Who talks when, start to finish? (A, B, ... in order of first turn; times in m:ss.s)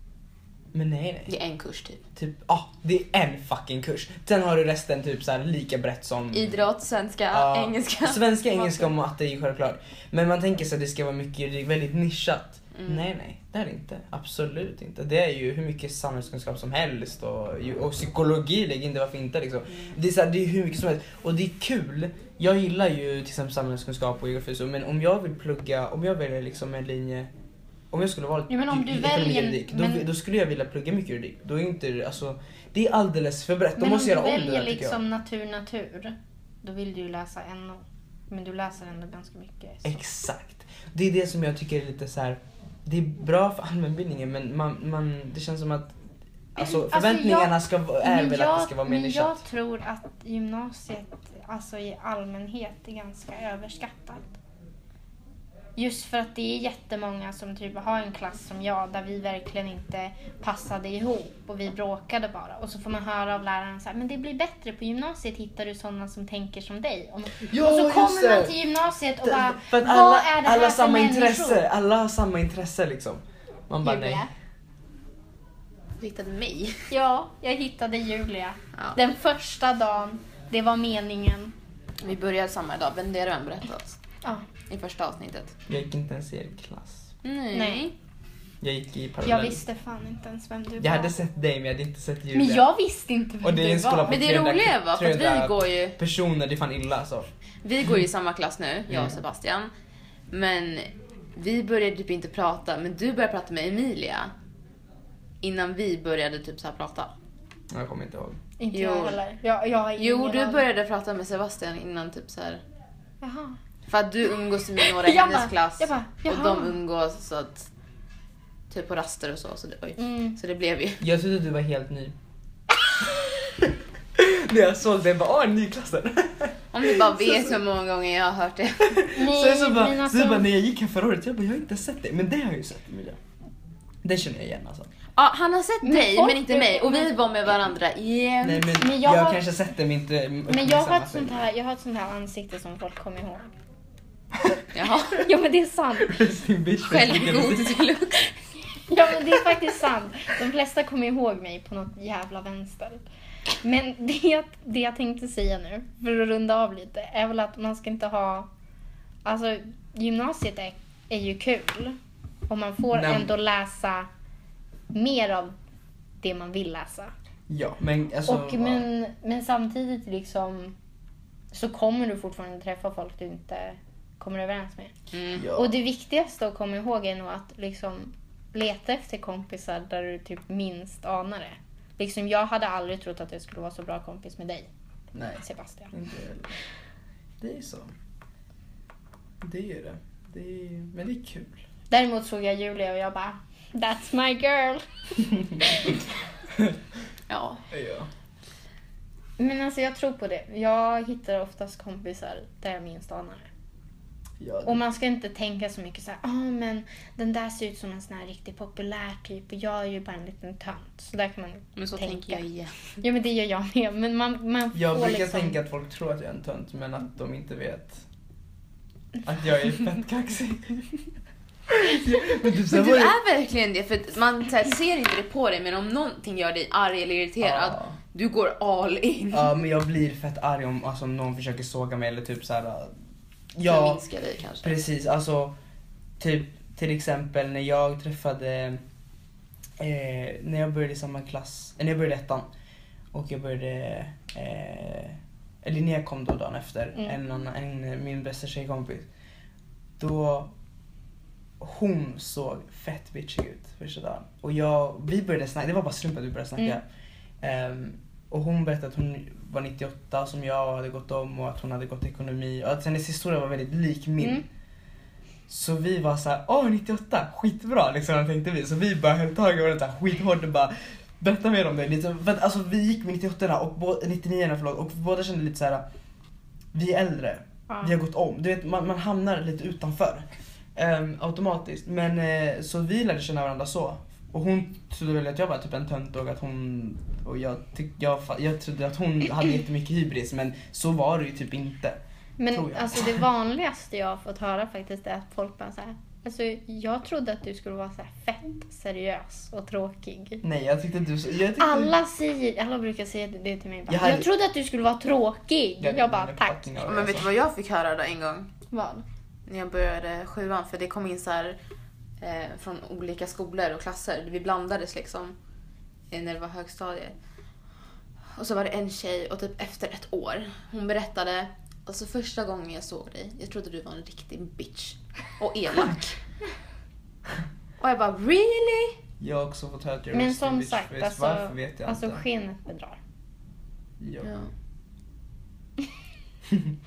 0:00.7-0:01.3 A
0:01.3-0:02.0 B
0:02.1-0:06.6 A
0:06.3-0:08.8 B
0:07.3-0:27.3 A
0:12.7-0:13.0 B
0:27.9-0:35.0 A
0:28.5-0:30.0 C
0:33.8-0:40.0 C
0:39.8-0:46.0 A
0:46.5-0:49.4 A
0:46.6-0:54.4 C
0:55.8-1:11.6 C
1:07.4-1:08.6 A
1:09.2-1:14.2 A
1:13.8-1:14.3 C
1:16.0-1:16.9 B
1:16.9-1:21.5 C
1:22.0-1:24.0 B
1:24.7-1:25.6 B
1:25.7-1:27.1 A
1:27.2-1:27.9 B
1:27.5-1:27.9 C
1:28.6-1:29.6 A
1:29.2-1:31.1 C
1:30.8-1:32.7 A
1:32.3-1:34.2 C
1:33.4-1:37.3 A
1:34.1-1:36.0 B
1:37.6-1:39.7 B
1:38.9-1:39.2 A
1:40.3-1:44.3 B
1:45.4-1:47.1 B
1:47.7-1:48.4 A
1:48.6-1:50.6 C
1:48.7-1:49.2 B
1:50.0-1:52.6 B
1:53.2-1:53.6 C
1:53.9-1:57.7 B
1:54.8-1:56.7 C
1:58.7-2:01.0 B
2:00.0-2:00.4 C
2:01.0-2:02.1 A
2:03.0-2:07.6 A
2:06.7-2:09.0 B
2:08.8-2:13.2 A
2:09.1-2:10.4 C
2:14.0-2:14.9 A
2:15.2-2:18.7 B
2:15.8-2:17.2 C
2:18.4-2:21.4 A
2:18.8-2:19.4 C
2:20.5-2:23.5 C
2:24.7-2:25.2 B
2:25.1-2:26.2 C
2:26.0-2:27.8 A
2:26.8-2:28.4 B
2:28.9-2:33.0 C
2:33.6-2:38.5 C
2:39.2-2:44.1 C
2:42.9-2:43.3 A
2:44.9-2:45.5 C
2:46.2-2:47.1 C
2:47.5-2:48.8 A
2:48.3-2:50.8 C
2:51.5-2:54.9 C
2:55.1-2:55.4 B
2:55.4-2:55.8 A
2:55.5-3:04.7 C
3:05.1-3:06.5 A
3:05.4-3:05.9 C
3:07.4-3:07.9 A
3:09.4-3:11.6 A
3:11.9-3:16.0 C
3:17.3-3:17.6 B
3:17.7-3:18.1 A
3:19.4-3:23.5 C
3:24.4-3:24.8 A
3:24.6-3:32.4 C
3:31.8-3:32.9 B
3:33.0-3:35.6 C
3:34.7-3:38.0 A
3:39.2-3:41.0 A
3:41.7-3:43.1 A
3:42.5-3:49.5 B
3:47.4-3:48.0 A
3:49.3-3:52.9 A
3:53.5-3:54.0 A
3:53.6-3:54.8 B
3:54.6-3:55.5 A
3:56.2-3:58.8 A
3:59.8-4:02.5 A
4:03.1-4:09.1 A
4:10.0-4:10.5 A
4:11.6-4:16.8 A
4:17.4-4:24.4 A
4:25.5-4:35.8 A
4:36.7-4:52.0 A
4:52.4-5:00.4 C
4:52.5-4:53.2 A
5:00.4-5:02.0 A
5:01.6-5:06.7 C
5:03.9-5:04.3 A
5:05.8-5:07.3 A
5:06.8-5:08.5 B
5:08.7-5:09.0 C
5:09.5-5:11.6 B
5:12.2-5:15.4 B
5:16.1-5:17.2 B
5:18.4-5:26.2 B
5:27.8-5:29.0 B
5:29.2-5:32.2 A
5:30.1-5:33.0 C
5:34.0-5:34.3 A
5:34.2-5:34.5 B